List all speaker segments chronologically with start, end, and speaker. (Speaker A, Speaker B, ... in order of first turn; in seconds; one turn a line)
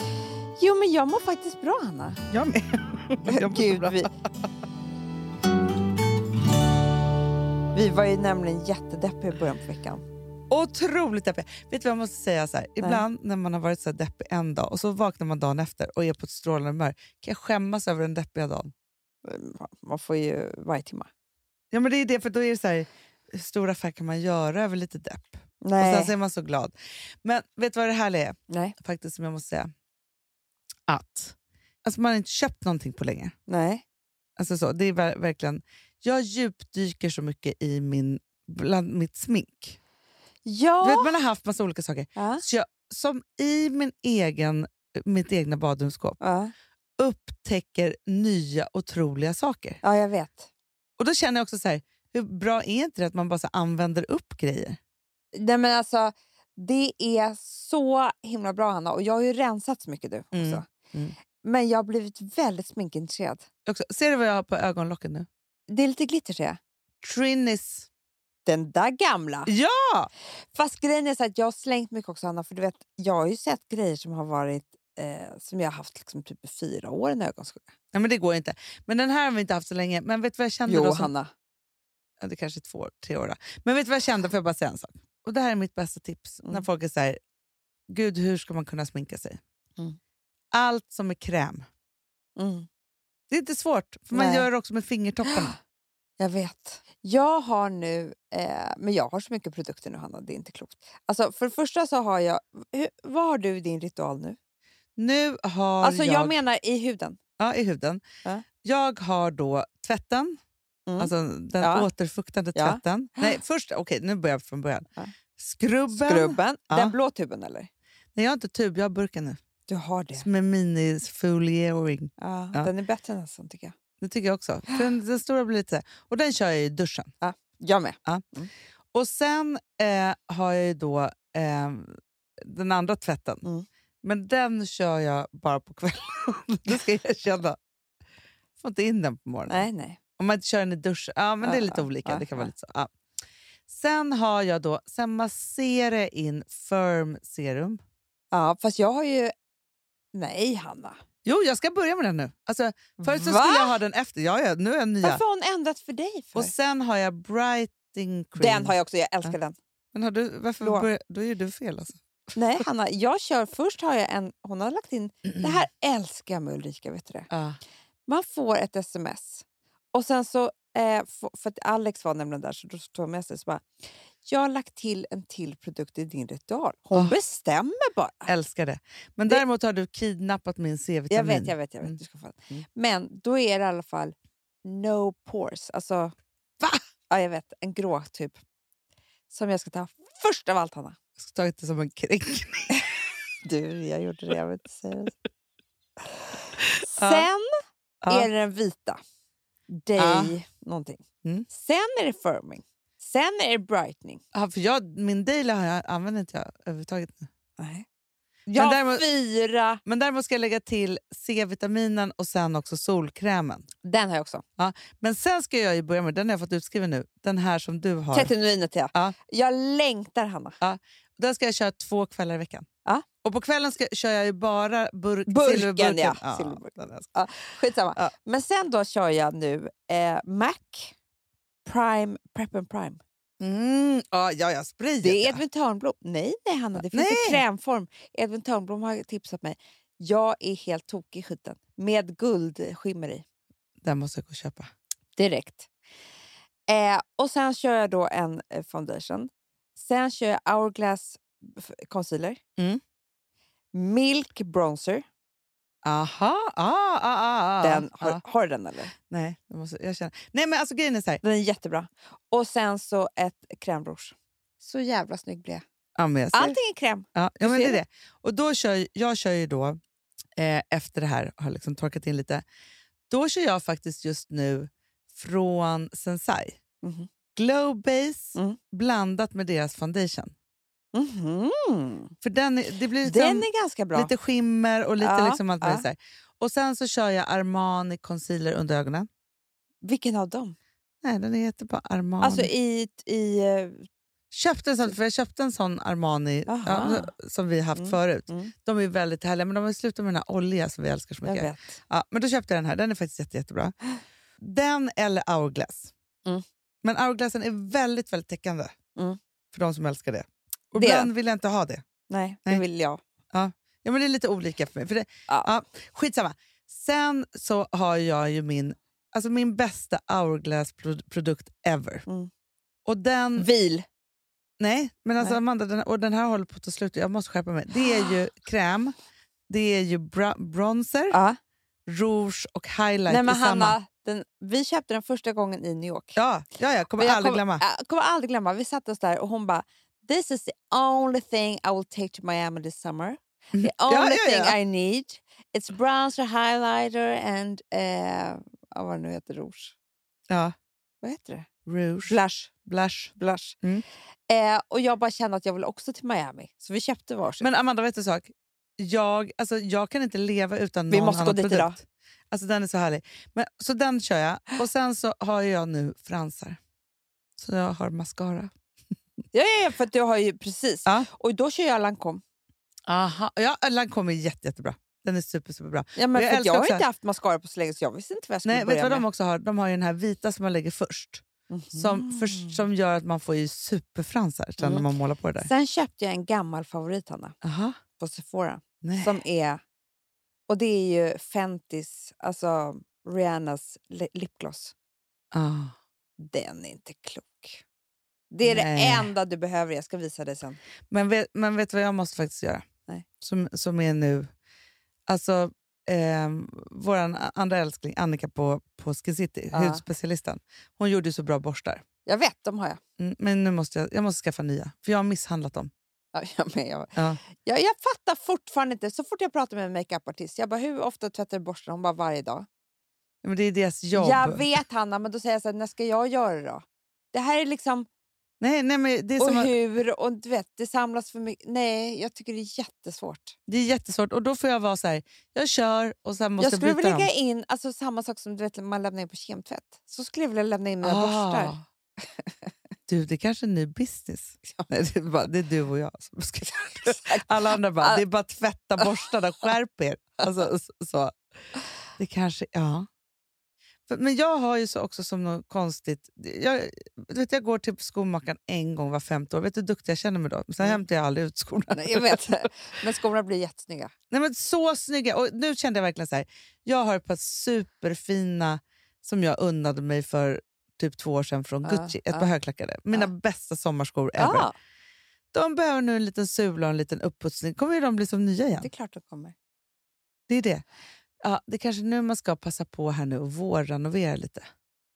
Speaker A: 0.6-2.2
Speaker B: 2.3-4.1
Speaker A: 3.2-4.1
Speaker A: 7.7-10.0
Speaker B: 10.5-18.7
Speaker A: 19.2-21.1
Speaker B: 21.7-26.7
Speaker A: 25.6-26.1
Speaker B: 27.2-29.7
Speaker B: 30.9-33.3
Speaker A: 33.5-33.8
Speaker B: 34.4-39.8
Speaker A: 40.5-41.1
Speaker B: 40.8-46.2
Speaker A: 42.2-42.4
Speaker A: 46.2-46.5
Speaker B: 47.0-49.8
Speaker A: 49.8-50.5
Speaker B: 51.0-54.8
Speaker A: 55.3-60.7
Speaker B: 60.3-61.2
Speaker A: 61.4-63.5
Speaker B: 63.7-65.3
Speaker A: 65.7-66.6
Speaker B: 67.0-67.9
Speaker A: 68.5-69.5
Speaker B: 69.5-70.1
Speaker A: 70.5-77.7
Speaker B: 77.9-81.1
Speaker A: 80.7-81.3
Speaker B: 82.2-87.2
Speaker B: 87.9-89.4
Speaker B: 90.5-91.7
Speaker A: 92.4-92.7
Speaker B: 93.3-95.5
Speaker A: 94.1-94.5
Speaker A: 95.2-95.5
Speaker A: 96.2-104.4
Speaker B: 105.0-106.3
Speaker A: 105.8-107.2
Speaker B: 107.4-108.0
Speaker B: 108.6-110.4
Speaker A: 110.9-111.9
Speaker B: 111.0-117.0
Speaker A: 112.5-113.4
Speaker A: 115.9-117.7
Speaker B: 118.2-119.4
Speaker A: 119.7-120.3
Speaker B: 120.1-122.7
Speaker A: 122.2-123.8
Speaker B: 124.0-127.1
Speaker A: 127.2-128.5
Speaker B: 128.9-133.4
Speaker B: 134.0-137.6
Speaker B: 138.6-139.7
Speaker A: 139.5-140.0
Speaker B: 140.2-142.9
Speaker A: 141.4-142.5
Speaker B: 143.7-147.8
Speaker A: 148.3-149.3
Speaker A: 150.1-151.0
Speaker B: 151.2-155.2
Speaker A: 153.0-153.8
Speaker A: 155.0-156.5
Speaker B: 156.3-159.3
Speaker A: 158.4-159.6
Speaker B: 159.9-162.6
Speaker A: 160.6-160.9
Speaker A: 162.4-167.3
Speaker B: 167.3-167.6
Speaker A: 168.1-173.7
Speaker A: 174.2-178.3
Speaker B: 176.9-177.2
Speaker B: 178.3-182.0
Speaker A: 181.1-188.4
Speaker A: 189.3-191.0
Speaker B: 191.2-192.9
Speaker A: 193.4-195.1
Speaker B: 196.6-197.3
Speaker A: 196.9-197.5
Speaker B: 198.0-198.3
Speaker A: 198.1-199.0
Speaker A: 199.7-204.2
Speaker B: 200.0-200.3
Speaker B: 204.3-207.3
Speaker A: 207.6-207.9
Speaker A: 208.5-209.8
Speaker B: 208.5-209.1
Speaker B: 209.8-213.7
Speaker A: 213.8-214.4
Speaker B: 214.6-218.3
Speaker A: 218.1-220.5
Speaker B: 220.6-222.7
Speaker B: 223.2-227.2
Speaker A: 225.3-231.0
Speaker A: 231.7-233.0
Speaker B: 233.4-235.4
Speaker A: 235.0-243.2
Speaker B: 236.8-237.4
Speaker B: 243.8-244.7
Speaker A: 245.2-245.7
Speaker A: 246.7-252.4
Speaker A: 253.7-255.0
Speaker B: 255.8-258.2
Speaker A: 257.6-258.9
Speaker B: 259.0-261.2
Speaker A: 261.2-265.6
Speaker B: 266.0-266.6
Speaker A: 266.3-267.8
Speaker B: 267.1-269.8
Speaker B: 270.4-272.4
Speaker B: 273.1-276.6
Speaker A: 276.8-277.1
Speaker B: 277.4-280.3
Speaker A: 280.9-282.1
Speaker B: 282.2-289.1
Speaker A: 283.0-284.1
Speaker A: 285.0-285.9
Speaker A: 289.8-290.6
Speaker B: 291.0-292.5
Speaker A: 292.2-293.9
Speaker B: 294.3-303.7
Speaker A: 296.5-297.1
Speaker A: 297.8-298.5
Speaker A: 301.2-301.8
Speaker B: 304.4-305.9
Speaker B: 306.8-308.7
Speaker B: 309.5-311.8
Speaker A: 310.8-311.1
Speaker A: 312.1-313.0
Speaker B: 313.3-322.1
Speaker B: 322.9-323.5
Speaker A: 323.4-323.9
Speaker B: 324.6-328.9
Speaker B: 329.5-331.2
Speaker A: 331.1-331.4
Speaker B: 331.9-333.8
Speaker A: 333.1-336.2
Speaker B: 336.2-337.6
Speaker A: 337.0-349.7
Speaker B: 343.5-344.6
Speaker B: 350.3-350.5
Speaker A: 351.0-351.5
Speaker B: 351.7-353.8
Speaker A: 352.1-352.5
Speaker A: 353.1-353.6
Speaker A: 354.3-357.5
Speaker B: 357.4-361.8
Speaker A: 360.9-361.8
Speaker B: 362.3-366.6
Speaker B: 367.4-368.5
Speaker A: 369.3-372.2
Speaker B: 372.9-376.8
Speaker A: 376.0-379.1
Speaker B: 378.4-385.5
Speaker A: 381.5-382.6
Speaker A: 384.6-384.9
Speaker A: 385.4-387.4
Speaker B: 387.4-387.8
Speaker A: 388.0-389.6
Speaker B: 388.8-389.2
Speaker A: 390.5-394.7
Speaker B: 395.3-395.8
Speaker A: 396.2-397.6
Speaker A: 398.3-400.6
Speaker B: 398.4-399.1
Speaker B: 400.9-402.6
Speaker B: 403.2-404.3
Speaker B: 405.1-411.8
Speaker A: 409.5-409.8
Speaker A: 412.1-412.8
Speaker B: 413.0-415.7
Speaker A: 416.1-422.5
Speaker B: 423.2-424.6
Speaker A: 423.9-427.9
Speaker B: 428.4-429.5
Speaker A: 429.2-433.4
Speaker B: 433.5-437.1
Speaker A: 436.4-441.6
Speaker B: 440.8-441.6
Speaker A: 442.2-442.5
Speaker B: 442.9-451.1
Speaker A: 446.6-447.3
Speaker B: 452.0-452.9
Speaker B: 453.9-462.2
Speaker A: 461.7-463.9
Speaker B: 464.1-474.5
Speaker A: 471.6-472.3
Speaker A: 474.2-474.5
Speaker B: 475.3-478.7
Speaker A: 478.6-479.4
Speaker B: 480.3-480.6
Speaker B: 481.2-484.5